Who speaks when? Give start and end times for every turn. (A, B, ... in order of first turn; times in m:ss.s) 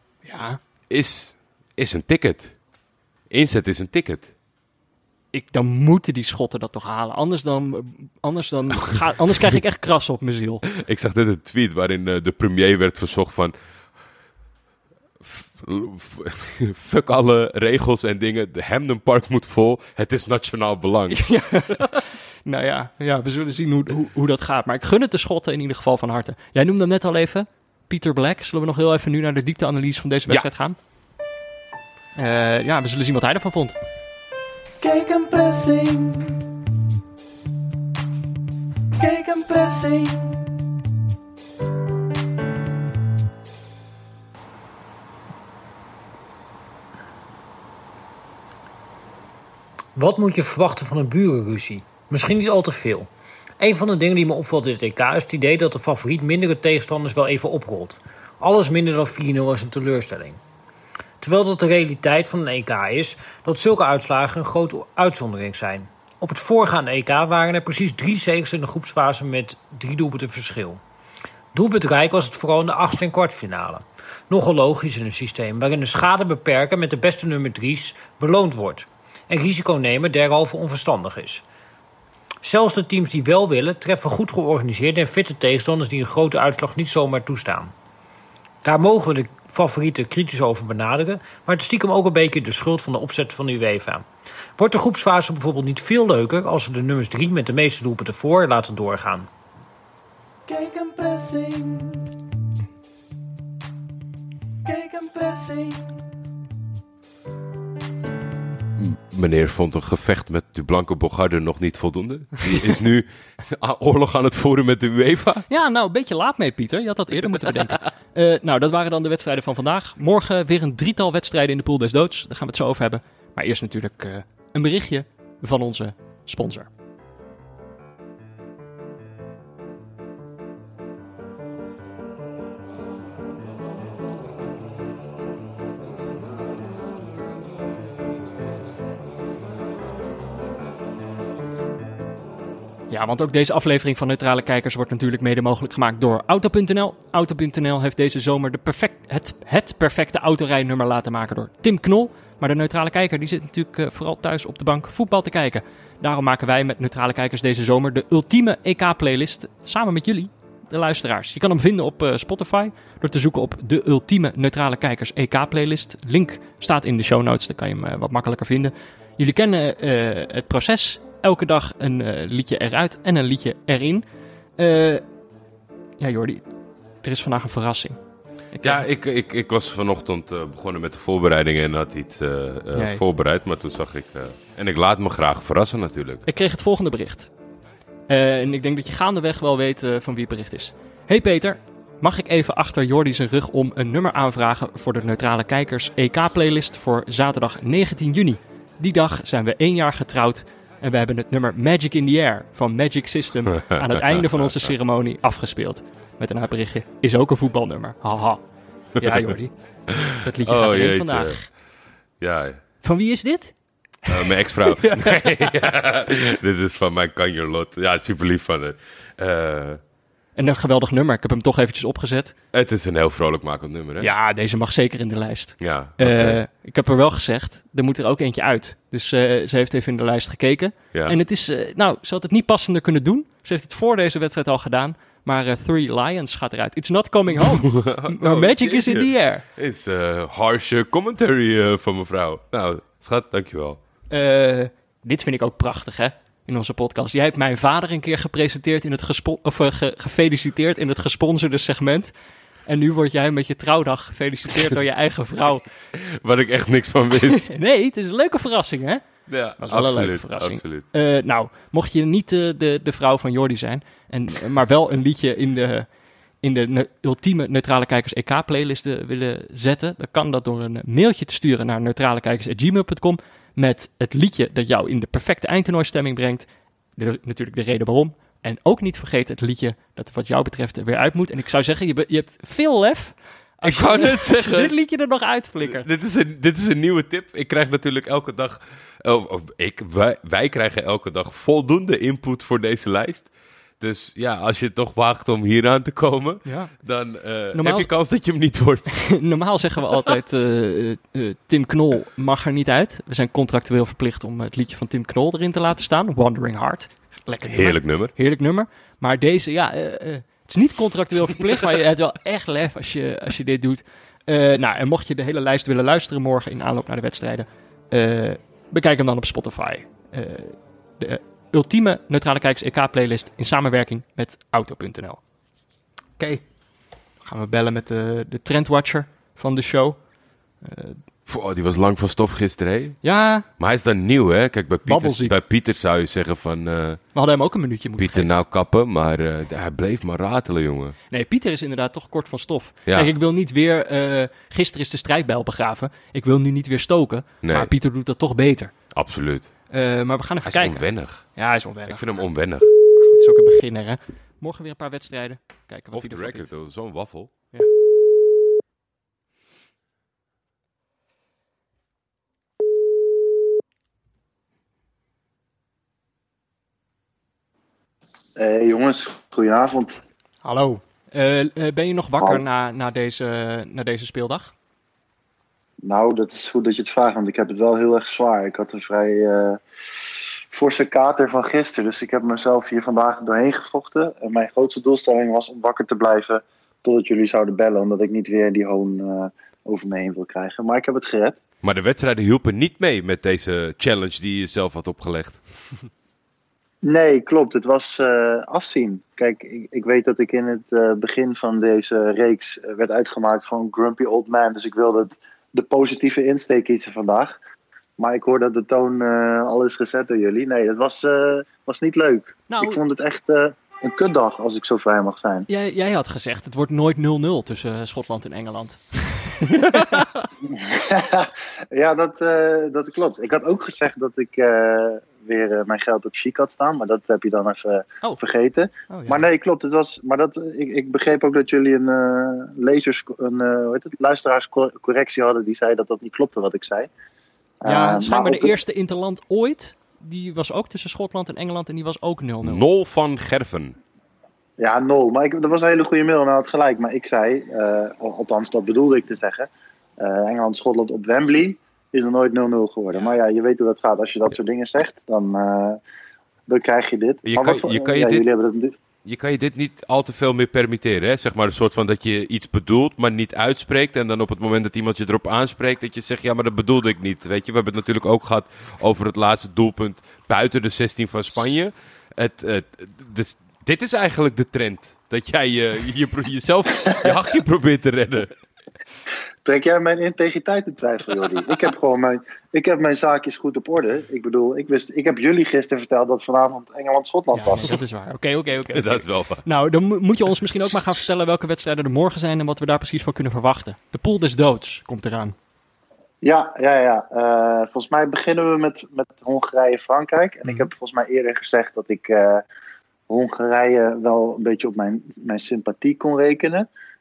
0:00.2-0:00.6 A
0:00.9-0:02.6 B
0:03.3-0:04.3 B
0:05.3-0:10.6 A
0:08.7-0:09.6 B
0:10.7-0:13.5 B
0:15.2-0:21.9 B
0:21.1-0:30.8 A
0:32.2-0:33.8 A
0:34.8-0:36.5 C
0:39.0-0:40.5 C
0:50.0-0:53.1 D
0:53.6-1:00.4 D
1:01.2-1:10.8 D
1:11.5-1:21.4 D
1:22.4-1:27.7 D
1:28.6-1:34.1 D
1:34.6-1:39.3 D
1:40.5-1:42.1 C
1:44.6-1:46.0 C
1:48.8-1:55.4 B
1:55.5-2:06.7 A
2:22.9-2:54.0 A
2:54.6-2:55.0 A
2:56.0-2:56.4 A
2:57.0-2:58.0 A
2:58.5-2:58.8 A
2:58.6-3:06.2 B
3:02.8-3:03.0 A
3:06.3-3:07.3 A
3:08.1-3:28.4 A
3:23.8-3:24.7 B
3:29.0-3:29.5 A
3:29.9-3:31.4 B
3:30.2-3:31.4 A
3:32.2-3:32.6 B
3:32.8-3:33.5 A
3:34.1-3:39.8 B
3:34.1-3:35.5 A
3:40.4-3:42.4 A
3:42.5-3:44.1 B
3:44.0-3:59.4 A
3:45.6-3:46.4 B
3:57.3-4:03.8 B
4:04.1-4:12.1 A
4:12.7-4:15.6 A
4:16.0-4:17.5 B
4:17.3-4:19.0 A
4:19.3-4:20.8 B
4:19.6-4:25.9 A
4:26.4-4:36.5 A
4:37.0-4:45.9 A
4:43.6-4:44.7 B
4:45.6-4:58.9 B
4:56.4-4:56.7 A
4:57.5-4:57.9 A
4:59.0-5:25.2 A
5:07.5-5:08.1 B
5:27.2-5:30.0 A
5:30.6-5:31.0 A
5:31.3-5:33.0 B
5:33.0-5:33.5 A
5:33.6-5:37.0 B
5:34.8-5:35.4 A
5:37.1-5:38.3 A
5:38.0-5:41.0 B
5:41.1-5:48.7 A
5:42.9-5:43.1 B
5:47.4-5:47.7 B
5:49.0-5:49.5 B
5:49.7-5:50.8 A
5:50.5-5:51.2 B
5:51.4-5:52.0 A
5:51.9-5:52.7 B
5:53.0-5:56.5 A
5:55.9-5:57.3 B
6:08.4-6:10.0 E
6:10.4-6:14.5 A
6:15.8-6:19.6 E
6:20.5-6:31.4 E
6:31.6-6:35.4 B
6:36.8-6:47.4 E
6:48.0-6:55.5 E
6:52.5-6:52.8 A
6:55.5-7:00.1 A
7:00.5-7:16.9 E
7:08.9-7:09.2 A
7:17.6-7:18.5 E
7:17.6-7:22.6 A
7:22.4-7:23.8 B
7:24.6-7:35.8 E
7:32.9-7:33.2 A
7:36.5-7:38.7 E
7:37.2-7:38.3 B
7:39.0-7:58.4 B
7:59.4-8:07.8 E
8:07.3-8:15.4 A
8:08.7-8:09.4 B
8:16.2-8:22.4 E
8:23.1-8:26.7 E